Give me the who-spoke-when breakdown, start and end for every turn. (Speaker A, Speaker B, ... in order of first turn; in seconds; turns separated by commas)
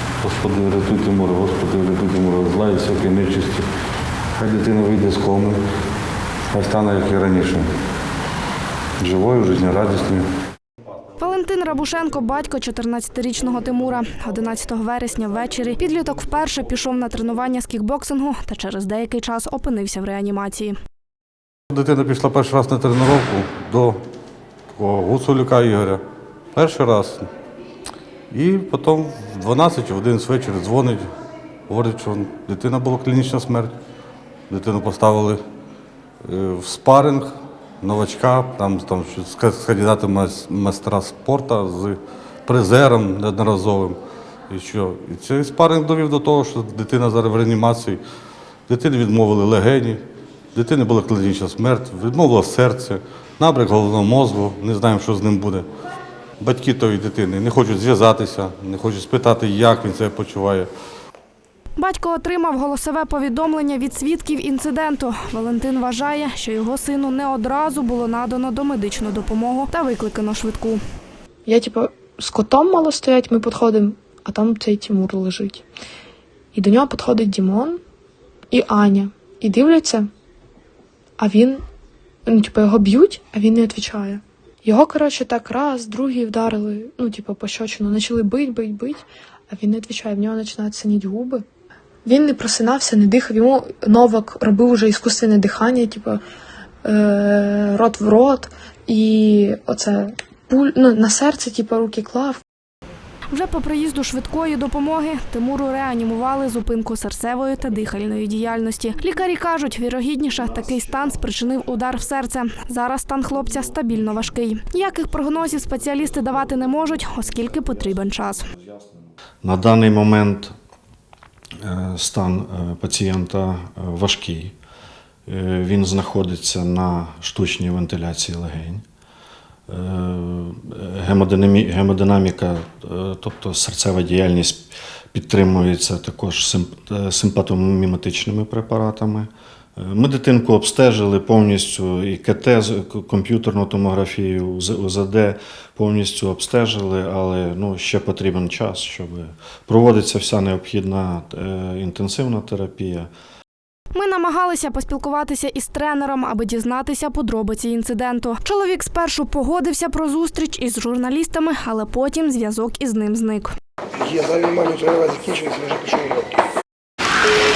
Speaker A: 0.2-3.7, Speaker A: 4.3-5.6, Speaker A: 6.5-7.7, Speaker A: 9.0-10.2, Speaker B: 11.2-20.8, Speaker A: 21.7-24.0, Speaker A: 24.7-26.0, Speaker A: 26.5-27.3, Speaker A: 28.3-31.1, Speaker A: 31.7-33.7, Speaker A: 34.5-35.4, Speaker A: 36.2-44.0, Speaker A: 44.5-48.0, Speaker A: 48.7-50.0, Speaker A: 50.5-55.7, Speaker A: 56.4-60.7, Speaker B: 61.8-70.8, Speaker C: 71.4-75.6, Speaker C: 76.5-77.8, Speaker C: 78.5-80.1, Speaker C: 81.2-81.6, Speaker C: 82.2-91.4, Speaker C: 92.0-96.2, Speaker C: 96.8-102.4, Speaker B: 103.3-118.5, Speaker D: 119.4-120.5, Speaker D: 121.6-124.5, Speaker D: 125.3-128.8, Speaker D: 129.7-153.1, Speaker B: 153.9-163.5, Speaker E: 164.1-166.2